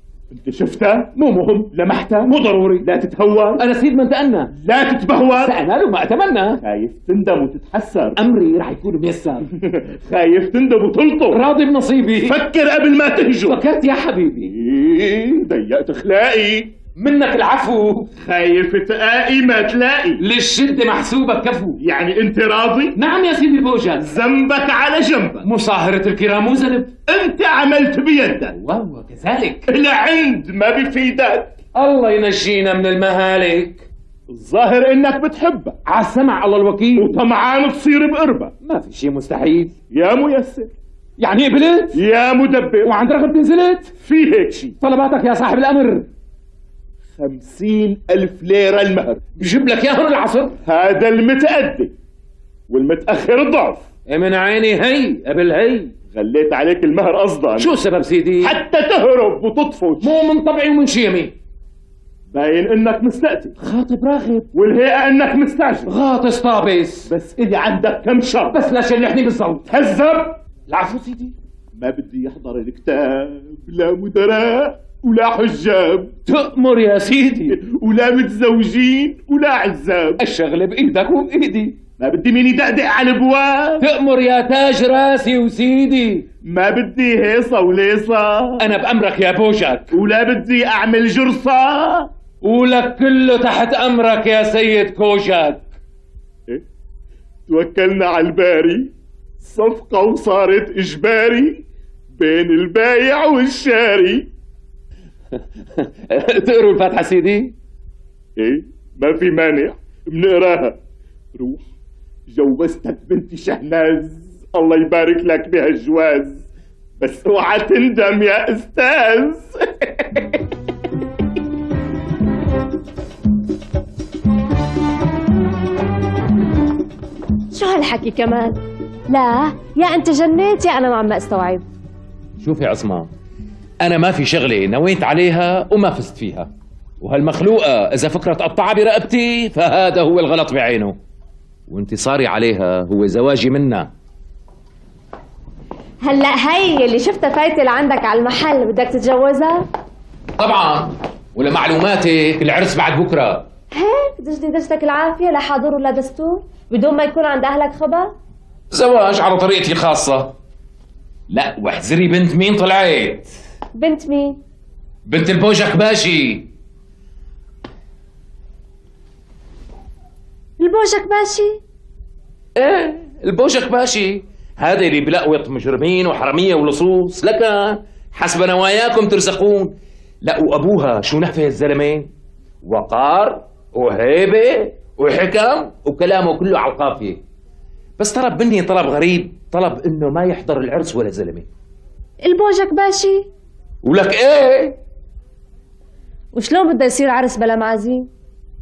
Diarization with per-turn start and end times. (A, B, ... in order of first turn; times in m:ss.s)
0:00.3-0:01.2 A
0:01.2-0:02.9 B
0:01.7-0:03.6 A
0:03.6-0:04.5 B
0:04.6-0:05.6 A
0:05.4-0:06.6 B
0:06.6-0:08.2 A
0:08.2-0:09.5 B
0:09.6-0:11.4 A
0:11.3-0:12.4 B
0:12.2-0:13.7 A
0:13.5-0:14.5 B
0:14.5-0:16.8 A
0:17.0-0:18.1 B
0:18.2-0:20.2 A
0:20.2-0:21.8 B
0:21.8-0:23.0 A
0:23.0-0:24.0 B
0:24.0-0:25.5 A
0:25.4-0:26.9 B
0:27.1-0:28.6 A
0:28.6-0:29.7 B
0:29.7-0:31.6 A
0:31.8-0:33.9 B
0:34.3-0:35.8 A
0:35.9-0:37.2 B
0:37.0-0:38.5 A
0:38.6-0:39.8 B
0:39.9-0:40.7 A
0:41.2-0:42.0 B
0:41.9-0:42.9 A
0:42.8-0:43.9 B
0:44.0-0:44.8 A
0:44.8-0:46.1 B
0:47.2-0:49.2 A
0:49.4-0:50.6 B
0:50.6-0:51.9 A
0:52.7-0:53.9 A
0:54.1-0:56.0 B
0:56.1-0:57.7 A
0:57.6-0:58.6 B
0:58.4-1:00.1 A
1:00.0-1:01.4 B
1:02.3-1:03.6 A
1:03.6-1:04.5 B
1:04.5-1:05.9 A
1:05.9-1:07.1 B
1:07.1-1:08.6 A
1:08.5-1:09.7 B
1:09.7-1:10.4 A
1:10.6-1:11.4 B
1:11.8-1:16.2 A
1:16.3-1:17.6 B
1:17.5-1:20.2 A
1:20.2-1:21.8 B
1:22.0-1:23.8 A
1:23.8-1:26.3 B
1:26.4-1:28.7 A
1:28.6-1:29.9 B
1:29.9-1:32.1 A
1:32.4-1:35.7 B
1:37.5-1:44.3 A
1:45.8-1:47.6 B
1:48.4-1:50.8 A
1:51.3-1:51.7 A
1:52.3-1:56.5 A
1:57.0-2:00.3 A
2:07.5-2:11.6 C
2:12.4-2:13.1 B
2:13.8-2:16.5 B
2:17.0-2:21.0 B
2:21.7-2:23.9 B
2:26.0-2:29.6 C
2:30.4-2:33.5 B
2:33.7-2:38.1 C
2:38.7-2:40.4 B
2:41.3-2:43.3 B
2:43.8-2:44.4 C
2:45.1-2:46.5 B
2:50.6-2:51.6 C
2:52.6-3:02.1 B
3:02.6-3:07.2 B
3:08.0-3:11.5 B
3:12.2-3:13.3 C
3:13.8-3:14.8 B
3:16.3-3:18.1 C